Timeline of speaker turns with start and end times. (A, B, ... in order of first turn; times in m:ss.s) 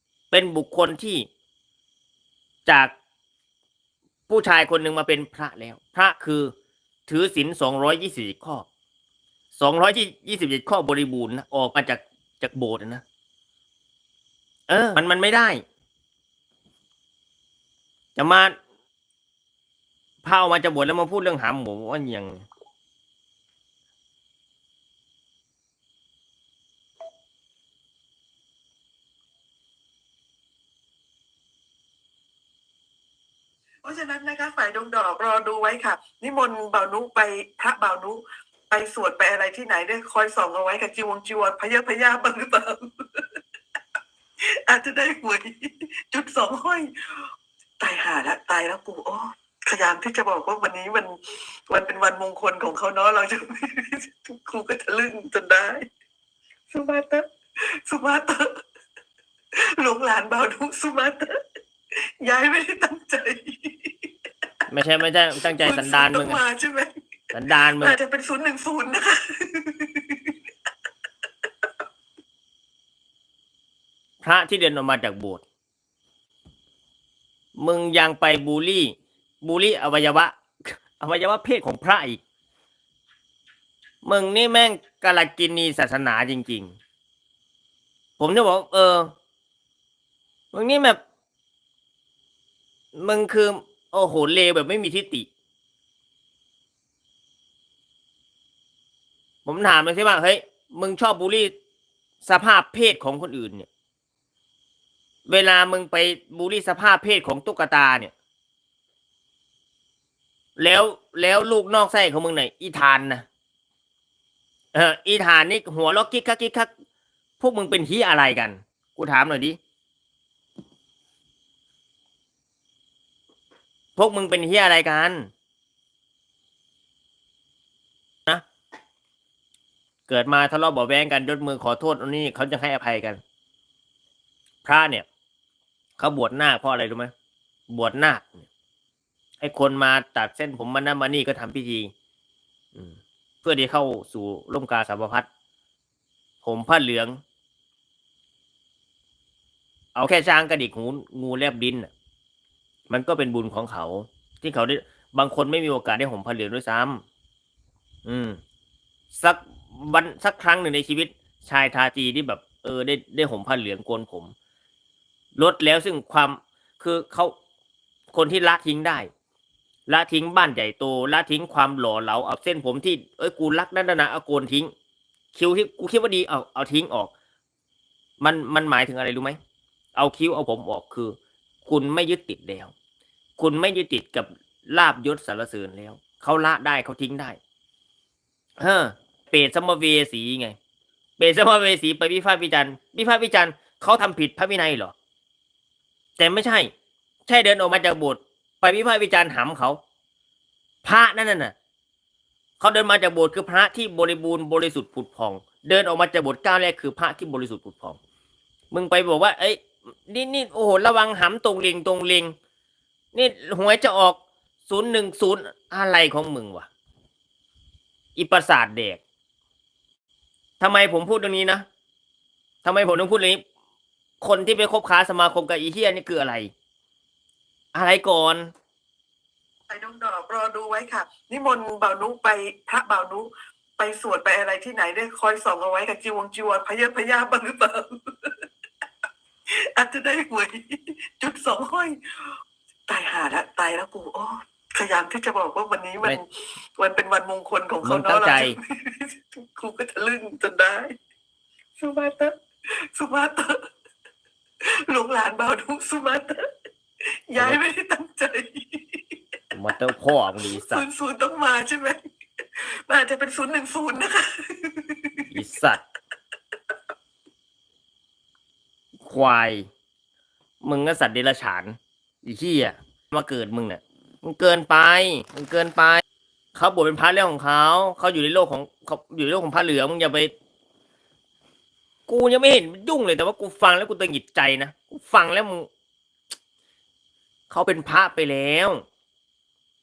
0:00.3-0:01.3 A
0:02.7-0:02.9 A
0:04.3-0:06.5 A
0:07.1-0:08.7 A
0:09.5-0:13.0 A
0:14.7-0:15.6 A
0:18.2-0:18.6 A
0:20.2-0:22.5 A
0:33.8-0:43.3 B
0:44.6-0:46.9 B
0:47.8-0:55.8 B
0:56.7-0:58.5 B
0:59.8-1:01.3 B
1:02.2-1:04.1 B
1:04.7-1:06.4 A
1:05.6-1:06.9 B
1:07.3-1:08.0 A
1:07.7-1:10.3 B
1:14.2-1:15.4 A
1:17.6-1:22.2 A
1:24.0-1:26.8 A
1:28.2-1:29.1 A
1:30.5-1:31.0 A
1:33.0-1:35.3 A
1:39.4-1:41.5 A
1:42.2-1:43.7 A
1:45.3-1:48.1 A
1:50.6-1:53.3 A
1:54.7-1:56.7 A
1:57.4-1:59.6 A
2:04.0-2:05.3 A
2:10.1-2:13.2 A
2:14.6-2:15.1 A
2:16.0-2:17.1 A
2:17.7-2:18.5 A
2:19.4-2:21.9 A
2:22.7-2:25.3 A
2:26.4-2:27.2 A
2:30.0-2:31.9 A
2:32.9-2:37.0 A
2:38.0-2:38.4 A
2:39.1-2:44.3 A
2:45.4-2:47.4 A
2:48.1-2:49.1 A
2:49.9-2:54.7 A
2:55.3-2:57.1 A
2:58.2-2:59.4 A
3:00.0-3:02.7 A
3:03.4-3:07.4 A
3:08.6-3:10.6 A
3:11.2-3:14.9 A
3:16.2-3:16.7 A
3:17.3-3:19.8 A
3:20.8-3:21.6 A
3:22.6-3:28.0 A
3:28.7-3:32.4 A
3:33.1-3:36.7 A
3:38.2-3:39.0 A
3:40.6-3:41.6 A
3:42.6-3:43.4 A
3:44.2-3:46.5 A
3:47.7-3:48.5 A
3:49.7-3:58.4 B
3:59.7-4:02.0 B
4:02.9-4:10.9 B
4:07.8-4:08.6 A
4:11.8-4:12.4 B
4:12.9-4:13.5 B
4:14.9-4:16.4 B
4:17.3-4:19.2 B
4:19.5-4:20.8 A
4:20.4-4:22.0 B
4:22.6-4:25.2 B
4:25.3-4:25.8 A
4:29.0-4:29.7 A
4:30.6-4:36.0 A
4:36.6-4:40.3 A
4:42.1-4:45.7 A
4:47.5-4:48.8 A